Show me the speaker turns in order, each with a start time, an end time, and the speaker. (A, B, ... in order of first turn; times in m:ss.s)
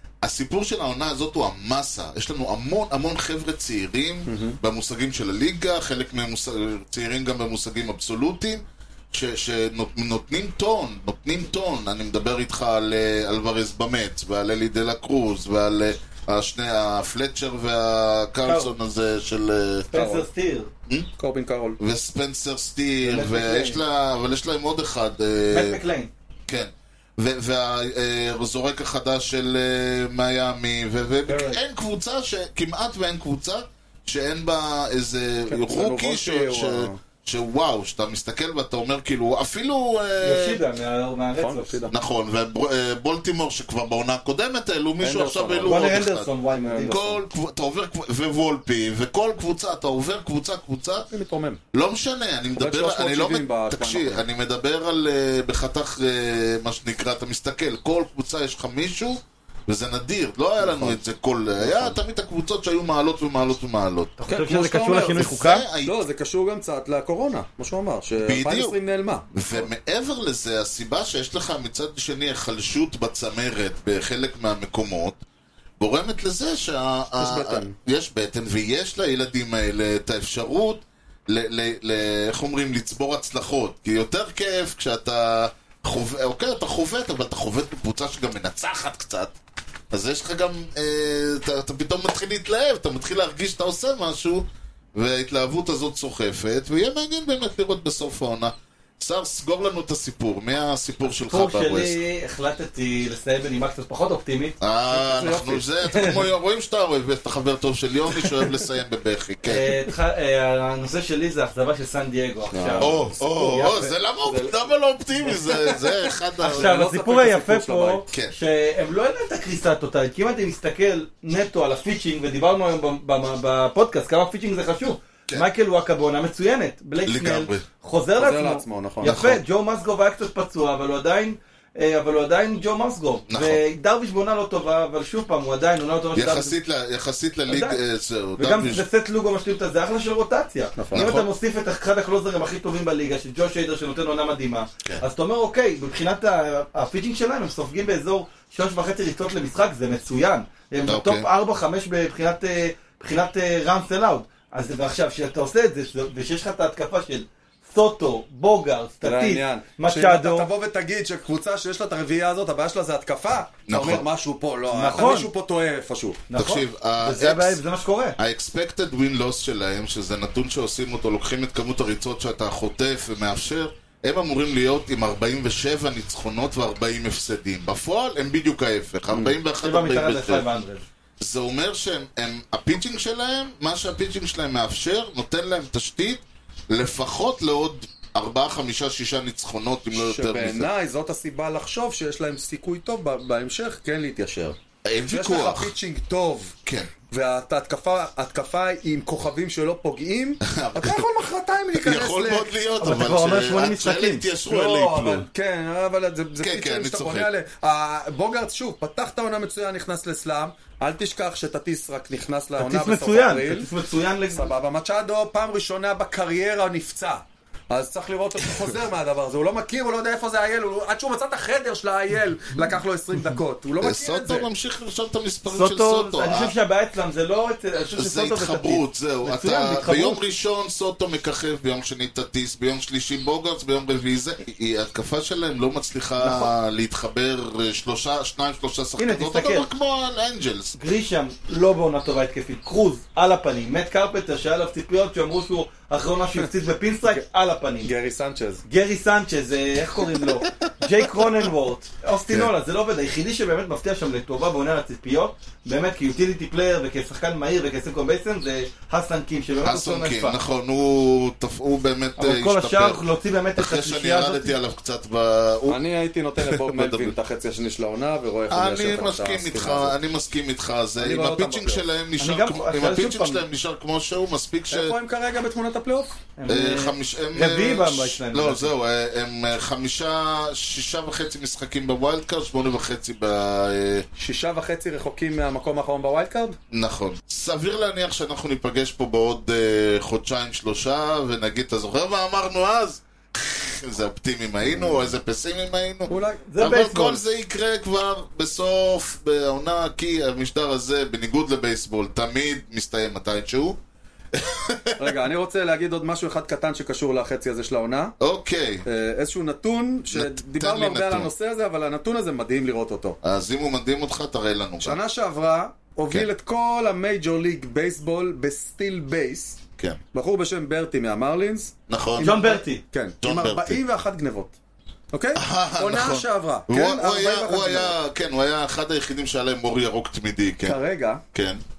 0:00.2-0:19.9 A
0:04.3-0:04.6 B
0:18.4-0:18.7 C
0:19.9-0:20.7 C
0:19.9-0:20.3 B
0:21.2-0:21.8 B
0:21.8-0:25.8 A
0:23.0-0:23.8 C
0:25.5-0:26.1 C
0:26.5-0:40.6 A
0:35.5-0:37.0 B
0:40.2-0:41.9 C
0:41.4-0:41.9 B
0:41.9-0:46.3 A
0:45.0-0:45.9 B
0:45.6-0:47.2 C
0:46.5-0:47.0 B
0:46.9-0:51.1 A
0:51.1-0:51.6 B
0:51.7-1:04.1 A
0:52.5-0:54.2 B
1:00.6-1:01.0 B
1:01.6-1:02.0 B
1:04.2-1:05.7 C
1:04.3-1:09.6 B
1:05.1-1:06.0 A
1:08.2-1:08.8 A
1:09.3-1:15.2 A
1:15.8-1:29.3 A
1:17.2-1:17.7 B
1:29.9-1:42.0 A
1:41.2-1:44.6 C
1:44.6-1:49.8 A
1:44.9-1:45.7 B
1:45.9-1:46.2 C
1:49.4-1:53.9 C
1:52.5-1:53.6 B
1:52.8-1:56.7 A
1:54.2-1:54.7 B
1:55.5-1:55.7 C
1:56.4-2:16.6 C
1:56.4-1:58.0 B
2:07.0-2:07.6 A
2:08.2-2:09.2 B
2:09.0-2:09.4 A
2:13.3-2:13.6 A
2:16.1-2:18.8 A
2:17.5-2:17.8 C
2:18.4-2:40.5 C
2:20.8-2:21.1 B
2:20.9-2:21.3 A
2:30.9-2:31.3 A
2:39.0-2:46.2 B
2:43.7-2:44.1 A
2:44.7-2:45.3 C
2:46.3-2:48.2 C
2:46.4-2:47.6 A
2:48.2-3:00.4 A
2:59.1-2:59.4 B
2:59.6-3:00.8 C
3:01.2-3:10.7 A
3:09.9-3:16.6 B
3:14.8-3:15.7 A
3:16.6-3:16.9 A
3:17.1-3:22.6 B
3:20.4-3:21.1 A
3:21.7-3:25.3 A
3:22.8-3:24.3 C
3:24.4-3:33.7 B
3:26.4-3:27.3 A
3:32.6-3:34.5 C
3:34.3-3:44.5 B
3:43.8-3:46.5 A
3:45.4-3:50.2 C
3:48.0-4:00.8 A
3:56.2-3:56.5 C
3:59.0-3:59.7 C
4:00.8-4:07.9 C
4:07.8-4:08.6 B
4:08.7-4:20.4 C
4:19.6-4:23.0 A
4:22.2-4:24.5 C
4:23.6-4:25.8 A
4:25.7-4:30.0 B
4:26.4-4:27.1 A
4:28.5-4:35.0 A
4:31.0-4:31.8 B
4:32.2-4:33.4 C
4:34.7-4:36.2 B
4:36.4-4:38.7 C
4:36.5-4:44.0 A
4:44.2-4:46.6 B
4:46.7-5:03.8 A
4:54.6-4:55.1 B
4:56.1-4:56.4 B
4:56.5-4:57.2 C
5:04.3-5:05.0 A
5:05.0-5:08.1 B
5:08.2-5:08.8 A
5:08.8-5:13.2 B
5:10.1-5:11.3 A
5:13.2-5:15.0 A
5:14.8-5:19.6 B
5:20.1-5:24.6 B
5:21.9-5:22.6 A
5:22.2-5:22.8 C
5:23.2-5:23.8 A
5:25.1-5:28.0 B
5:25.3-5:30.8 A
5:30.6-5:31.2 B
5:31.3-5:31.6 A